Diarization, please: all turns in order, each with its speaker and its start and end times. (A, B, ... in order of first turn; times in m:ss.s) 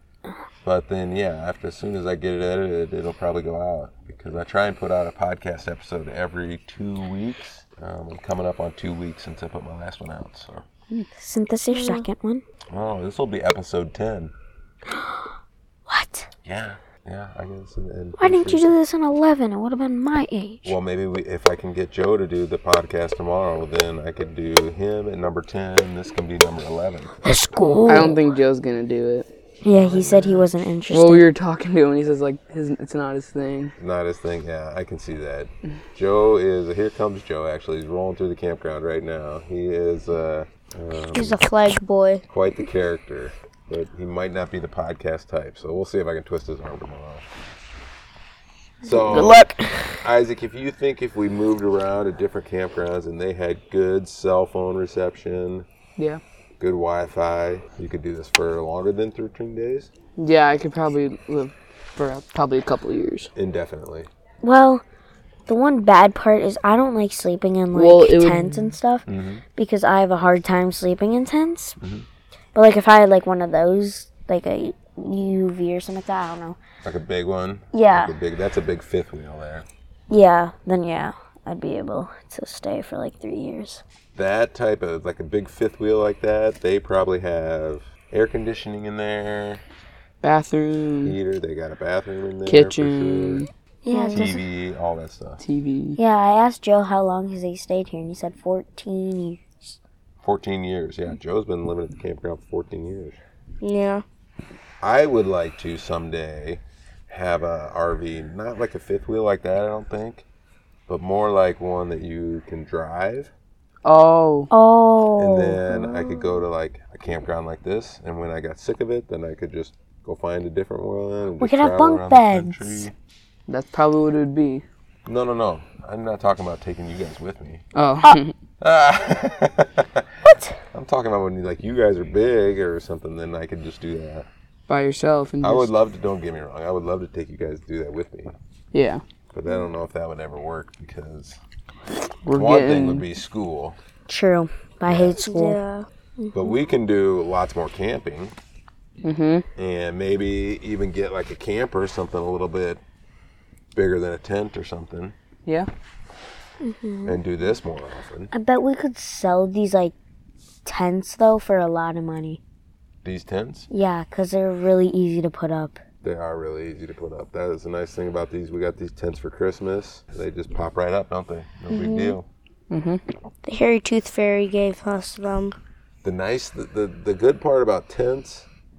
0:00.6-0:10.6 A
0:11.2-0:12.4 B
0:11.7-0:12.0 C
0:12.7-0:14.3 A
0:14.9-0:15.3 B
0:15.9-0:16.3 B
0:16.4-0:18.8 A
0:18.2-0:20.8 B
0:20.6-0:27.1 A
0:27.2-0:28.2 B
0:27.8-0:29.3 D
0:29.6-0:31.3 B
0:30.9-0:33.7 D
0:33.8-0:41.4 A
0:41.1-0:42.2 C
0:42.3-0:47.2 A
0:48.8-0:55.7 A
0:49.1-0:49.7 B
0:56.6-0:59.9 A
1:00.2-1:03.3 D
1:03.4-1:04.1 A
1:04.4-1:04.8 B
1:05.5-1:11.8 B
1:07.7-1:08.8 D
1:09.1-1:09.4 A
1:11.8-1:12.1 A
1:12.5-1:16.6 B
1:16.8-1:19.7 A
1:17.7-1:18.1 B
1:20.1-1:23.8 B
1:24.2-1:29.6 A
1:30.2-1:31.2 D
1:31.0-1:33.4 A
1:32.5-1:33.5 D
1:33.9-1:34.4 B
1:33.9-1:34.3 C
1:34.1-1:35.4 A
1:35.4-1:36.0 D
1:36.0-1:39.8 B
1:40.2-1:43.2 A
1:43.6-1:44.0 C
1:44.8-1:50.3 A
1:50.9-1:53.3 A
1:53.8-1:54.5 D
1:54.5-1:55.6 B
1:55.2-2:02.9 A
2:01.4-2:02.9 B
2:03.5-2:04.6 D
2:05.1-2:07.6 A
2:07.8-2:08.3 D
2:08.6-2:10.1 A
2:10.7-2:14.3 A
2:14.7-2:15.7 D
2:15.4-2:18.4 A
2:18.7-2:19.0 D
2:19.3-2:21.4 A
2:22.2-2:23.0 D
2:22.3-2:23.8 A
2:24.1-2:25.6 B
2:24.9-2:25.3 A
2:25.2-2:25.9 C
2:26.3-2:28.4 A
2:29.0-2:29.5 D
2:29.6-2:32.8 A
2:33.7-2:35.2 A
2:36.6-2:37.2 C
2:37.0-2:38.3 A
2:38.3-2:39.9 B
2:40.6-2:42.4 B
2:43.0-2:43.7 A
2:43.7-2:45.8 B
2:46.0-2:52.3 A
2:51.7-2:52.2 C
2:52.7-2:53.0 D
2:53.4-2:55.5 C
2:56.0-2:58.5 A